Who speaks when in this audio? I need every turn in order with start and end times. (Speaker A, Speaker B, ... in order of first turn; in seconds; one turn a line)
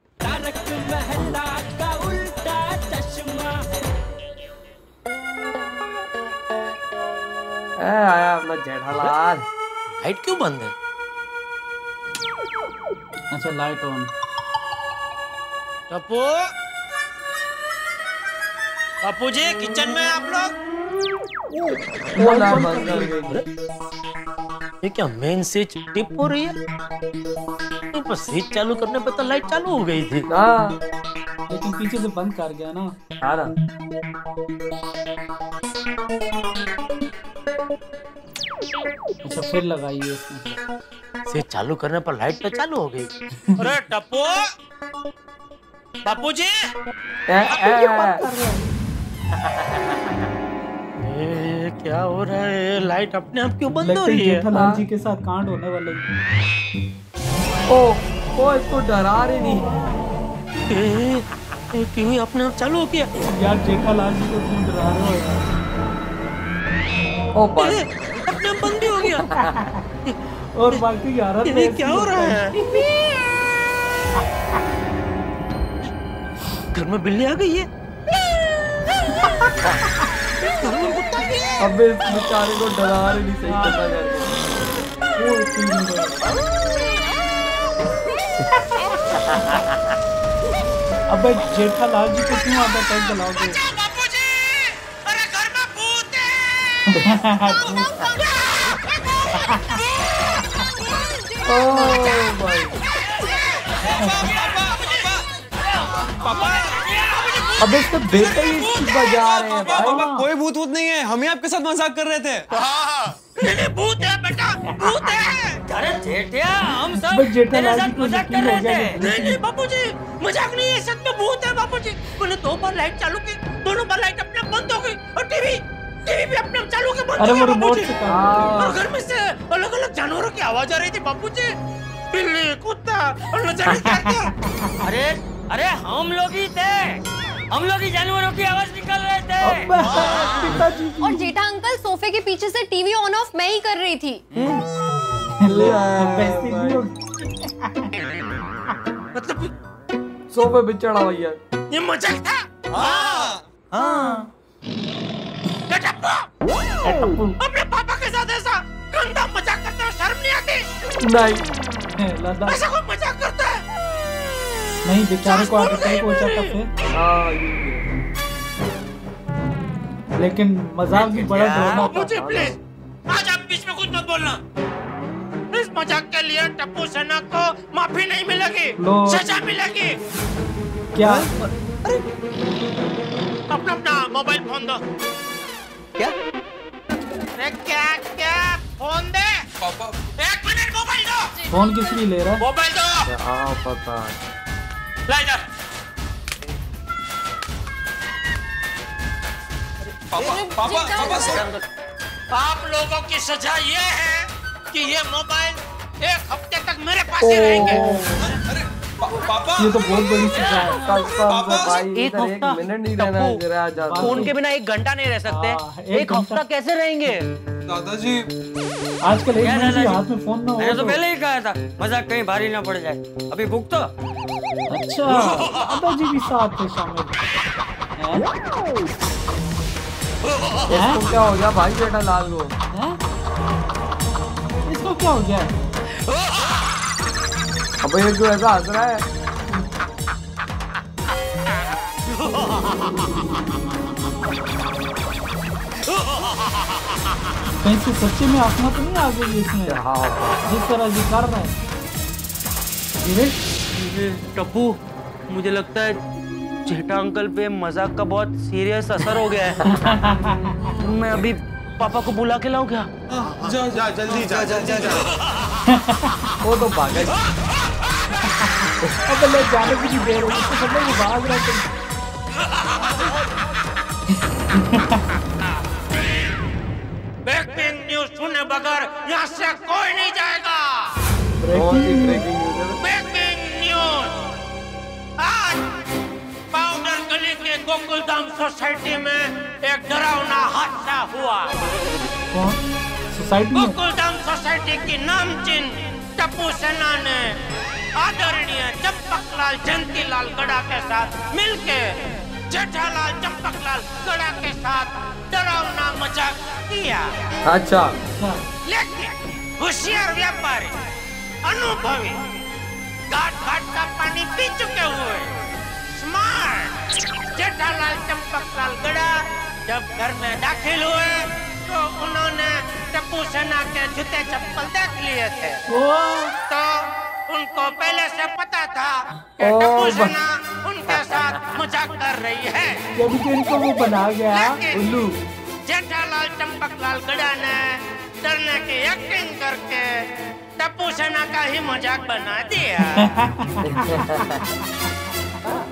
Speaker A: 0.3-2.4
Speaker A: 3.1-3.3
Speaker B: 7.8-9.4
Speaker C: 10.0-10.7
Speaker A: 13.3-14.1
Speaker D: 15.9-16.4
Speaker D: 19.0-20.5
Speaker A: 22.1-23.2
Speaker B: 22.1-23.4
Speaker D: 24.8-26.5
Speaker C: 25.2-25.6
Speaker D: 27.9-30.2
Speaker B: 30.3-30.8
Speaker A: 31.5-32.9
Speaker B: 33.2-33.5
Speaker A: 39.2-40.5
Speaker C: 41.3-42.3
Speaker D: 41.4-44.3
Speaker D: 46.0-46.5
Speaker B: 47.3-48.2
Speaker A: 47.6-48.7
Speaker D: 49.4-50.1
Speaker D: 51.0-54.4
Speaker A: 53.8-56.0
Speaker B: 54.5-54.8
Speaker B: 57.7-59.6
Speaker A: 59.4-59.8
Speaker D: 60.7-63.1
Speaker A: 63.3-65.4
Speaker B: 67.3-67.8
Speaker D: 67.6-69.3
Speaker B: 69.2-69.7
Speaker A: 69.4-69.8
Speaker A: 70.5-72.7
Speaker D: 71.5-72.5
Speaker D: 76.7-77.7
Speaker D: 80.4-81.5
Speaker B: 81.6-84.3
Speaker A: 83.5-83.8
Speaker A: 85.2-86.2
Speaker A: 88.7-89.2
Speaker A: 91.1-93.6
Speaker D: 93.4-96.8
Speaker A: 97.0-98.0
Speaker D: 97.8-100.3
Speaker A: 99.3-99.8
Speaker B: 101.4-102.8
Speaker A: 101.7-102.1
Speaker D: 103.3-103.6
Speaker A: 104.0-104.2
Speaker C: 104.0-104.3
Speaker E: 104.1-105.2
Speaker C: 105.6-106.4
Speaker E: 106.2-106.6
Speaker D: 106.4-107.6
Speaker C: 107.0-107.4
Speaker B: 107.6-110.0
Speaker A: 107.6-108.4
Speaker D: 108.3-109.7
Speaker A: 109.7-110.3
Speaker E: 109.7-112.5
Speaker D: 112.5-115.6
Speaker C: 115.7-119.0
Speaker A: 116.9-119.4
Speaker D: 118.3-127.9
Speaker A: 127.2-128.8
Speaker B: 128.1-128.8
Speaker D: 128.6-131.5
Speaker D: 132.1-134.3
Speaker A: 133.9-134.7
Speaker C: 134.8-139.7
Speaker A: 139.4-141.3
Speaker F: 141.0-144.2
Speaker A: 145.4-147.9
Speaker B: 145.4-146.8
Speaker D: 149.1-149.5
Speaker B: 150.3-151.4
Speaker D: 151.7-153.4
Speaker E: 152.8-153.3
Speaker D: 155.7-156.3
Speaker D: 156.8-160.7
Speaker B: 156.8-157.3
Speaker B: 161.0-161.5
Speaker A: 162.0-162.6
Speaker D: 162.5-163.6
Speaker A: 164.8-166.7
Speaker D: 165.2-166.5
Speaker B: 166.9-168.1
Speaker A: 170.2-172.1
Speaker C: 170.9-171.7
Speaker D: 171.4-172.6
Speaker B: 172.1-172.6
Speaker D: 173.1-174.4
Speaker D: 175.5-180.0
Speaker A: 178.8-179.2
Speaker A: 180.9-181.3
Speaker C: 181.0-182.0
Speaker D: 183.5-184.8
Speaker D: 187.4-189.4
Speaker E: 189.6-189.9
Speaker D: 190.2-191.3
Speaker A: 191.5-192.4
Speaker D: 192.4-193.1
Speaker B: 193.0-194.2
Speaker D: 195.1-195.4
Speaker E: 200.1-201.4
Speaker F: 200.2-201.4
Speaker D: 202.3-207.8
Speaker B: 207.2-208.2
Speaker A: 207.6-208.2
Speaker E: 208.5-209.8
Speaker A: 209.6-210.8
Speaker B: 210.8-214.3
Speaker E: 211.3-211.8
Speaker C: 211.9-213.4
Speaker A: 213.9-214.3
Speaker C: 214.0-217.2
Speaker A: 215.2-216.4
Speaker E: 217.7-218.2
Speaker A: 219.0-221.0
Speaker C: 219.4-220.0
Speaker C: 220.6-223.9
Speaker A: 224.7-227.1
Speaker A: 228.0-228.3
Speaker B: 230.7-232.5
Speaker A: 230.7-231.0
Speaker A: 232.7-233.0
Speaker A: 234.6-235.5
Speaker B: 237.8-239.0
Speaker A: 247.6-249.8
Speaker B: 249.7-250.4
Speaker A: 250.4-251.5
Speaker A: 253.0-253.4
Speaker C: 253.7-254.8
Speaker C: 255.3-256.0
Speaker C: 256.6-259.6
Speaker A: 259.7-260.7
Speaker C: 260.8-262.9
Speaker E: 263.2-265.1
Speaker A: 265.7-266.3
Speaker B: 266.4-267.2
Speaker A: 268.3-271.7
Speaker A: 274.5-275.0
Speaker D: 277.2-281.0
Speaker A: 281.4-282.2
Speaker B: 281.5-282.8
Speaker D: 282.8-284.1
Speaker D: 285.2-285.6
Speaker D: 286.5-291.7
Speaker A: 292.3-293.8
Speaker D: 293.5-297.4
Speaker D: 298.0-301.9
Speaker D: 302.5-307.3
Speaker B: 307.4-307.9
Speaker A: 308.2-308.4
Speaker D: 308.7-310.7
Speaker D: 311.5-312.2
Speaker D: 313.1-315.3
Speaker D: 315.9-316.8
Speaker D: 317.3-325.7
Speaker A: 325.7-326.3
Speaker D: 326.5-332.8
Speaker B: 329.4-330.2
Speaker B: 330.9-331.6
Speaker A: 332.9-334.6
Speaker D: 334.3-334.8
Speaker B: 334.7-335.1
Speaker D: 335.6-340.0
Speaker D: 340.6-343.2
Speaker A: 342.9-344.2
Speaker B: 343.6-344.4